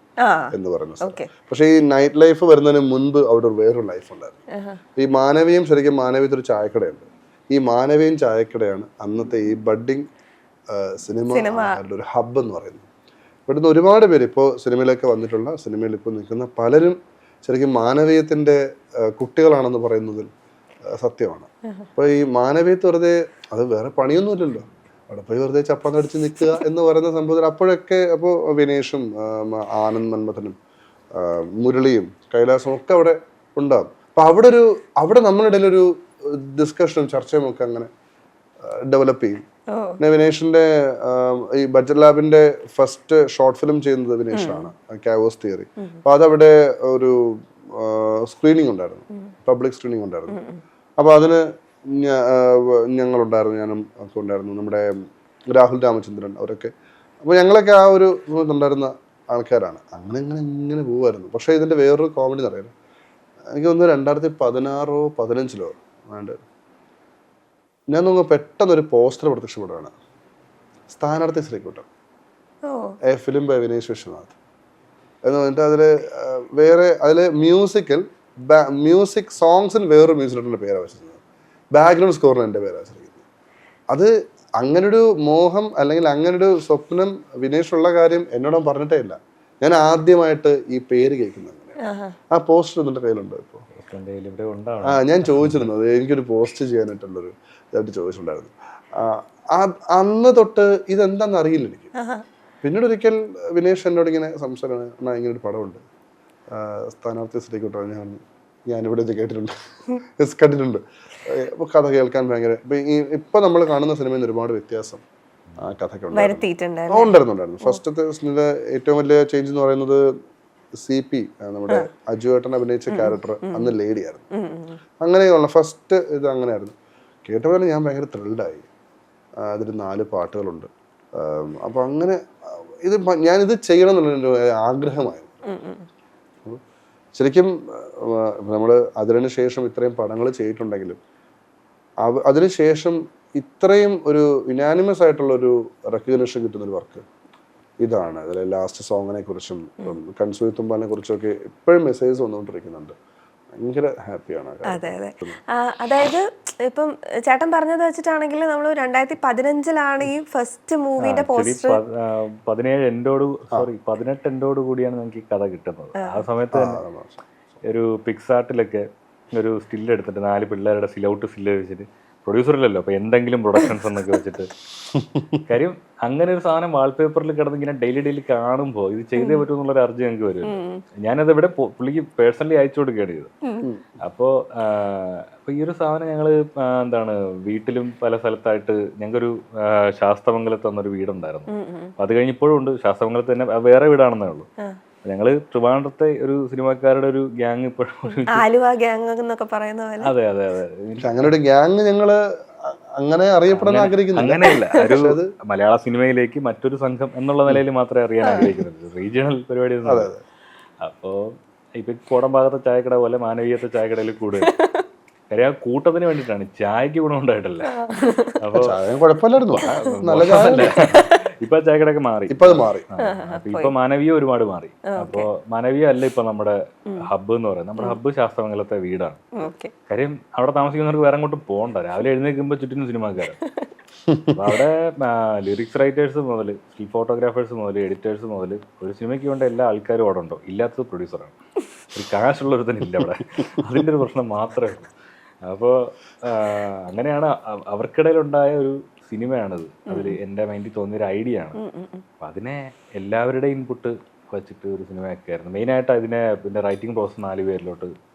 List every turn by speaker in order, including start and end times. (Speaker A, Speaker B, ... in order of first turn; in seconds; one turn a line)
Speaker A: 0.2-1.3
Speaker B: 0.5-4.4
Speaker A: 4.5-4.8
Speaker B: 5.0-10.1
Speaker B: 10.7-12.9
Speaker A: 11.3-11.8
Speaker B: 13.5-20.3
Speaker B: 21.0-30.6
Speaker B: 31.1-37.9
Speaker B: 38.7-39.4
Speaker A: 39.7-40.0
Speaker B: 40.0-50.4
Speaker A: 44.3-44.7
Speaker A: 50.3-50.6
Speaker B: 51.0-55.0
Speaker B: 55.5-56.7
Speaker B: 57.2-62.7
Speaker B: 63.5-66.4
Speaker B: 67.9-69.9
Speaker B: 70.9-71.8
Speaker A: 72.6-73.0
Speaker B: 73.1-74.3
Speaker B: 75.2-81.2
Speaker B: 81.7-83.2
Speaker B: 83.9-91.7
Speaker A: 91.8-92.2
Speaker B: 92.3-93.6
Speaker C: 93.7-95.7
Speaker B: 94.8-101.9
Speaker A: 101.9-102.2
Speaker B: 102.6-105.8
Speaker B: 106.5-115.0
Speaker B: 115.6-120.0
Speaker A: 116.1-117.8
Speaker B: 120.8-124.2
Speaker A: 122.9-123.7
Speaker A: 124.3-124.8
Speaker B: 125.0-128.7
Speaker B: 129.4-132.2
Speaker B: 132.8-135.4
Speaker A: 135.5-135.8
Speaker B: 137.1-141.0
Speaker B: 142.0-147.0
Speaker B: 147.8-152.9
Speaker B: 153.6-155.4
Speaker A: 154.7-161.8
Speaker C: 161.0-166.8
Speaker A: 166.0-166.2
Speaker B: 166.5-167.2
Speaker C: 167.7-174.5
Speaker B: 174.9-175.4
Speaker C: 175.5-183.3
Speaker A: 179.2-179.5
Speaker A: 180.4-180.8
Speaker C: 184.0-194.5
Speaker A: 191.5-191.9
Speaker C: 195.1-198.4
Speaker A: 198.3-200.1
Speaker C: 200.0-201.3
Speaker B: 201.0-205.3
Speaker C: 203.5-210.1
Speaker A: 208.2-208.5
Speaker B: 209.8-210.2
Speaker C: 210.8-211.2
Speaker C: 211.8-214.5
Speaker A: 214.4-214.8
Speaker C: 215.3-217.7
Speaker A: 217.7-218.4
Speaker C: 218.4-218.8
Speaker B: 218.5-220.9
Speaker C: 219.5-229.3
Speaker A: 219.9-221.1
Speaker B: 222.3-222.8
Speaker A: 223.0-223.7
Speaker A: 224.9-225.3
Speaker A: 229.4-229.7
Speaker C: 229.9-233.4
Speaker A: 233.4-233.7
Speaker B: 234.1-234.3
Speaker C: 234.3-241.3
Speaker C: 241.9-244.9
Speaker C: 245.5-251.6
Speaker A: 249.9-250.2
Speaker A: 251.6-252.0
Speaker C: 252.2-257.9